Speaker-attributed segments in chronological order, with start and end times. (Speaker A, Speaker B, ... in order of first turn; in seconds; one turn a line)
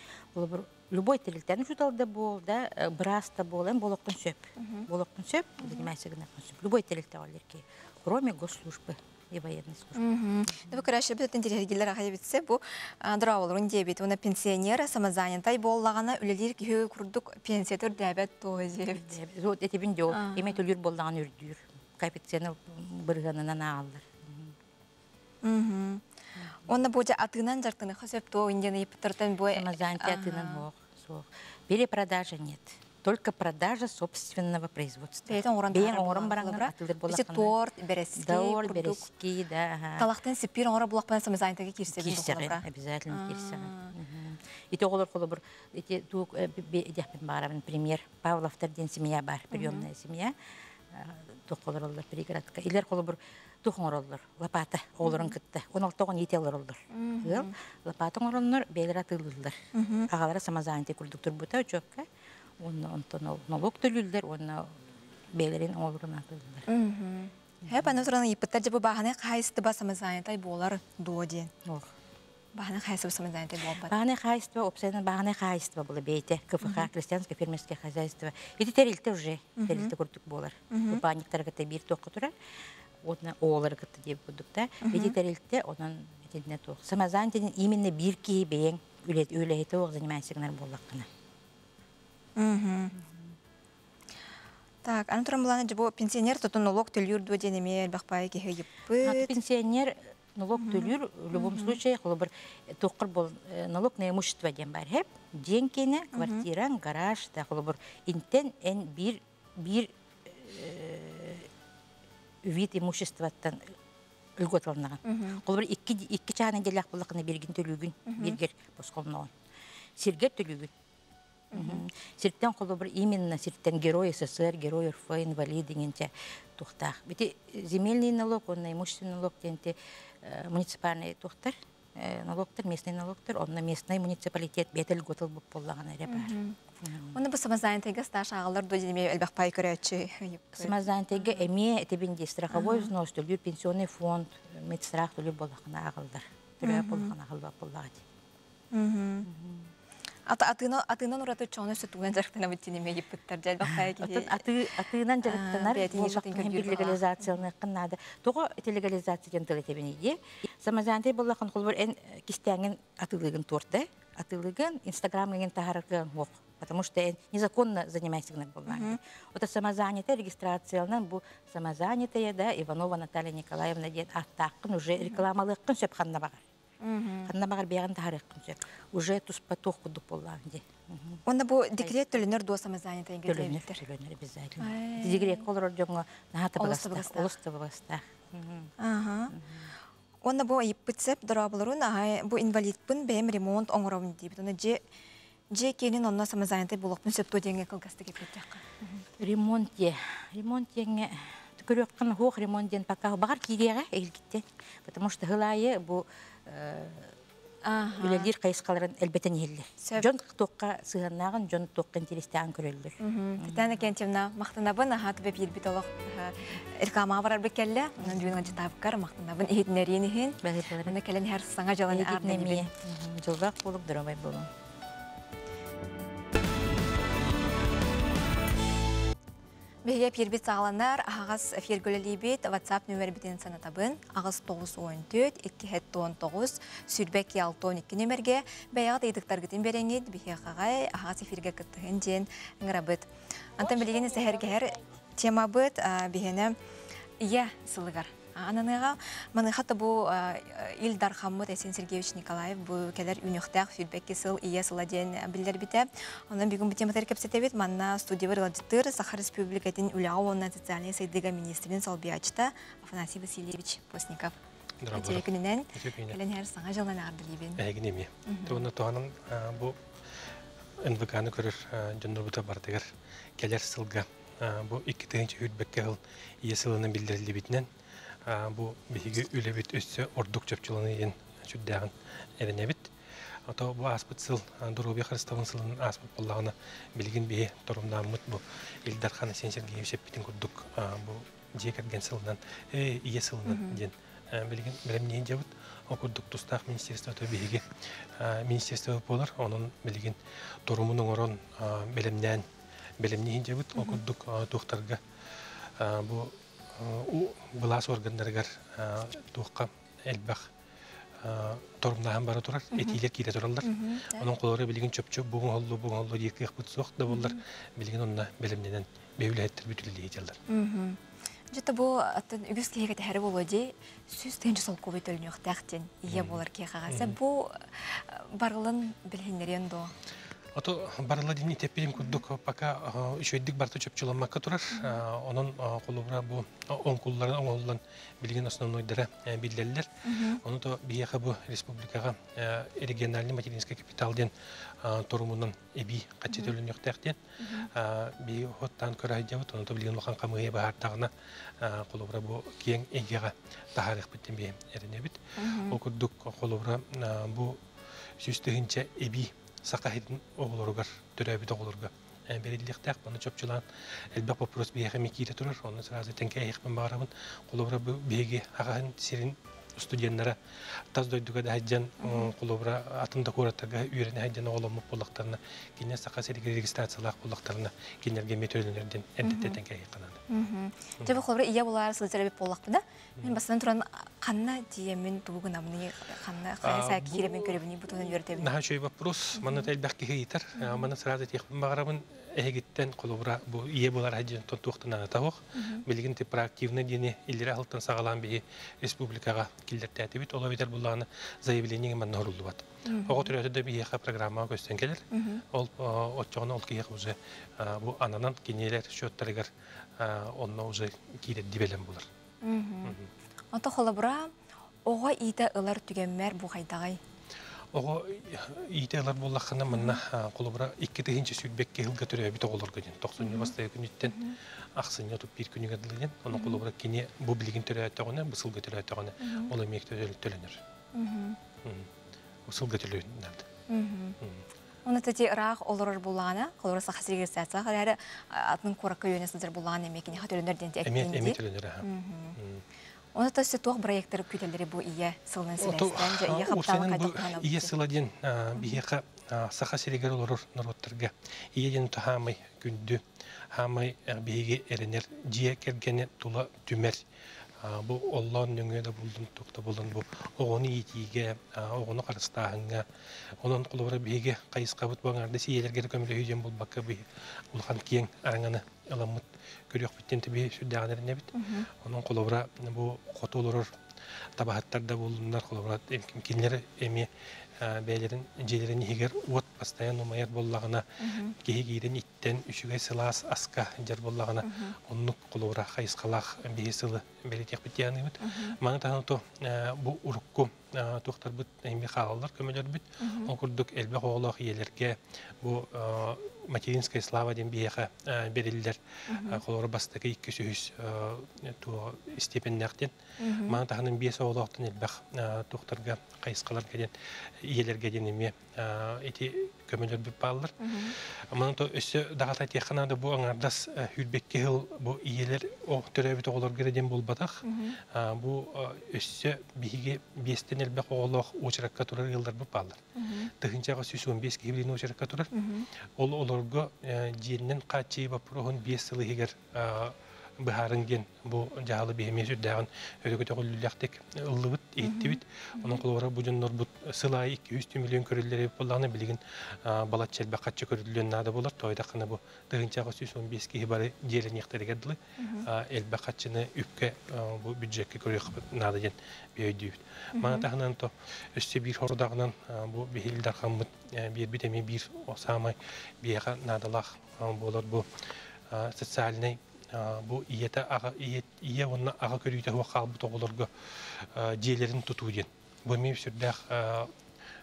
Speaker A: 0.3-10.8
Speaker B: 4.6-4.9
Speaker B: 5.6-5.9
Speaker B: 9.9-19.2
Speaker A: 18.8-24.6
Speaker B: 20.1-20.5
Speaker B: 25.4-26.0
Speaker B: 26.7-30.6
Speaker A: 29.5-37.5
Speaker B: 35.3-39.1
Speaker A: 38.2-40.1
Speaker B: 40.0-43.9
Speaker A: 41.9-50.3
Speaker B: 49.5-49.9
Speaker A: 50.9-59.6
Speaker B: 55.0-55.3
Speaker B: 56.9-57.5
Speaker B: 59.7-60.1
Speaker A: 60.1-62.1
Speaker A: 62.6-64.8
Speaker A: 65.3-66.7
Speaker B: 66.7-71.5
Speaker A: 71.7-71.9
Speaker B: 72.5-73.9
Speaker A: 73.8-82.3
Speaker B: 79.6-79.9
Speaker B: 80.7-81.0
Speaker A: 83.0-91.1
Speaker B: 84.8-85.2
Speaker B: 92.4-93.0
Speaker B: 94.8-99.4
Speaker A: 99.0-111.5
Speaker B: 100.5-101.8
Speaker B: 106.1-106.4
Speaker A: 112.4-113.7
Speaker A: 114.4-119.3
Speaker B: 115.0-115.4
Speaker B: 118.1-118.4
Speaker A: 120.0-120.7
Speaker B: 121.5-121.8
Speaker A: 121.5-137.2
Speaker B: 136.1-136.6
Speaker B: 137.1-141.4
Speaker A: 140.6-148.0
Speaker B: 142.5-142.9
Speaker B: 146.6-147.1
Speaker B: 148.7-149.3
Speaker A: 149.2-149.7
Speaker B: 150.3-154.5
Speaker A: 153.6-176.4
Speaker B: 155.2-157.3
Speaker B: 168.7-169.0
Speaker B: 176.8-177.3
Speaker A: 177.3-181.2
Speaker B: 181.3-183.8
Speaker A: 181.8-182.1
Speaker A: 183.3-188.7
Speaker B: 184.6-185.5
Speaker B: 186.6-187.3
Speaker B: 188.8-189.3
Speaker A: 189.3-189.7
Speaker B: 190.2-194.8
Speaker B: 195.5-198.9
Speaker A: 199.2-207.2
Speaker B: 207.7-208.3
Speaker A: 208.0-213.9
Speaker B: 209.8-210.1
Speaker B: 213.0-222.7
Speaker A: 218.0-218.6
Speaker A: 220.4-221.0
Speaker A: 221.9-224.5
Speaker B: 229.8-246.6
Speaker B: 247.2-264.3
Speaker C: 264.8-266.2
Speaker B: 264.9-267.6
Speaker C: 267.6-269.8
Speaker B: 268.3-268.7
Speaker C: 270.8-277.7
Speaker C: 278.3-282.9
Speaker C: 283.5-302.5
Speaker B: 293.5-293.8
Speaker C: 303.0-305.0
Speaker B: 303.8-304.0
Speaker C: 305.8-310.5
Speaker C: 311.2-320.4
Speaker B: 312.7-313.0
Speaker B: 313.6-314.3
Speaker B: 317.1-317.4
Speaker B: 320.5-321.0
Speaker B: 321.5-329.9
Speaker C: 326.1-327.1
Speaker C: 330.6-339.9
Speaker B: 332.0-332.2
Speaker B: 334.7-335.0
Speaker B: 340.1-340.4
Speaker C: 340.4-344.3
Speaker C: 344.8-357.6
Speaker B: 347.4-347.7
Speaker B: 355.4-355.8
Speaker C: 358.2-370.4
Speaker C: 370.9-380.2
Speaker B: 372.0-372.3
Speaker B: 379.2-379.6
Speaker B: 380.3-388.5
Speaker C: 386.6-387.6
Speaker C: 388.3-412.1
Speaker B: 389.4-389.7
Speaker B: 390.6-390.9
Speaker B: 395.6-395.8
Speaker B: 402.9-403.3
Speaker B: 405.1-405.4
Speaker B: 412.4-413.0
Speaker B: 413.5-414.3
Speaker B: 414.9-417.0
Speaker C: 417.7-430.6
Speaker B: 419.7-420.0
Speaker B: 423.2-423.5
Speaker B: 424.1-424.4
Speaker B: 426.3-426.6
Speaker B: 429.2-429.5
Speaker B: 430.9-431.4
Speaker C: 431.6-431.9
Speaker C: 432.5-433.5
Speaker B: 433.7-434.2
Speaker B: 434.9-442.4
Speaker C: 440.9-441.9
Speaker C: 442.4-442.6
Speaker B: 443.1-447.7
Speaker C: 445.6-453.0
Speaker C: 453.5-457.0
Speaker C: 457.6-462.9
Speaker C: 463.4-473.7
Speaker B: 471.4-471.7
Speaker C: 474.4-502.9
Speaker B: 481.0-481.4
Speaker B: 484.4-484.7
Speaker B: 488.2-488.6
Speaker B: 493.0-493.3
Speaker B: 499.1-499.4
Speaker B: 503.2-503.6
Speaker C: 503.4-522.8
Speaker B: 510.6-510.9
Speaker B: 517.4-517.8
Speaker B: 523.0-523.3
Speaker C: 523.4-525.3
Speaker B: 525.3-525.7
Speaker C: 526.0-557.9
Speaker B: 534.8-535.8
Speaker B: 545.2-545.5
Speaker B: 550.2-550.5
Speaker C: 558.5-566.9